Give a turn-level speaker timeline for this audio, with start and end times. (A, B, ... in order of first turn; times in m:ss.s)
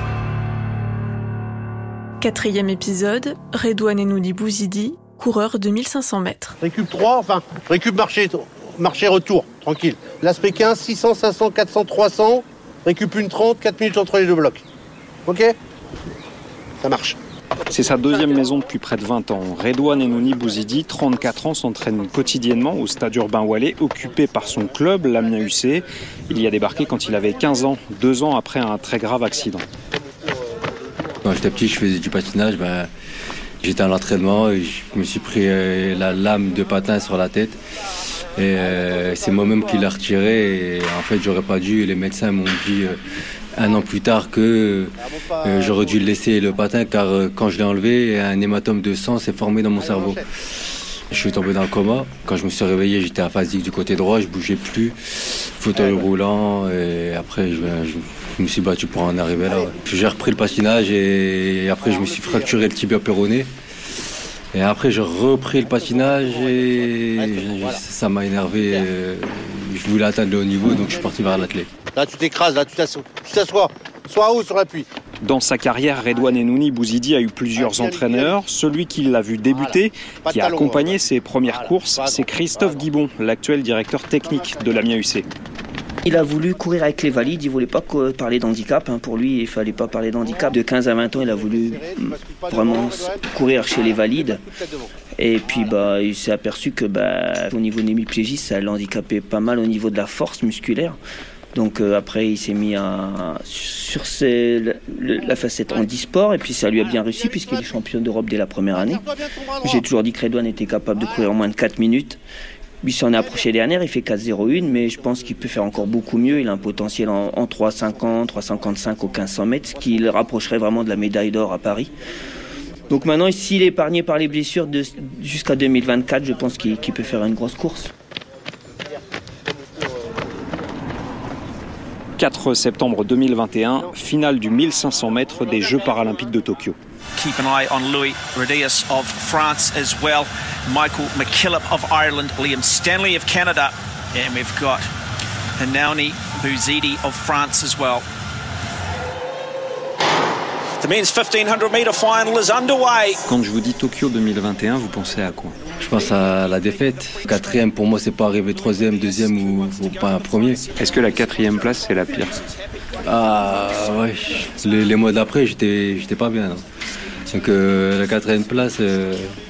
0:02.2-0:06.6 A
0:06.6-0:14.6 B
0:15.3-0:15.6 B
0:16.8-0:17.2 B
0:17.7-0:29.6 C
0:31.2-0:32.9 D
0:33.6-0:37.6 D
0:38.4-0:43.0 D
0:43.6-0:50.3 D
0:51.1-1:03.5 D
1:01.9-1:02.5 B
1:04.5-1:11.7 D
1:07.3-1:07.8 B
1:11.9-1:14.9 B
1:15.2-1:25.3 C
1:17.5-1:18.4 B
1:19.5-1:22.8 B
1:24.5-1:24.7 B
1:26.0-1:34.5 E
1:31.1-1:34.9 B
1:35.2-1:41.0 E
1:41.5-1:49.1 E
1:47.0-1:47.4 B
1:48.8-1:49.8 B
1:49.6-1:52.2 E
1:52.8-2:01.9 E
2:02.9-2:07.9 E
2:12.2-2:16.8 C
2:17.2-2:24.9 F
2:25.6-2:28.0 F
2:30.8-2:33.2 F
2:33.3-2:35.6 C
2:35.8-2:40.6 D
2:40.8-2:42.4 C
2:43.0-2:46.6 D
2:47.3-2:49.4 D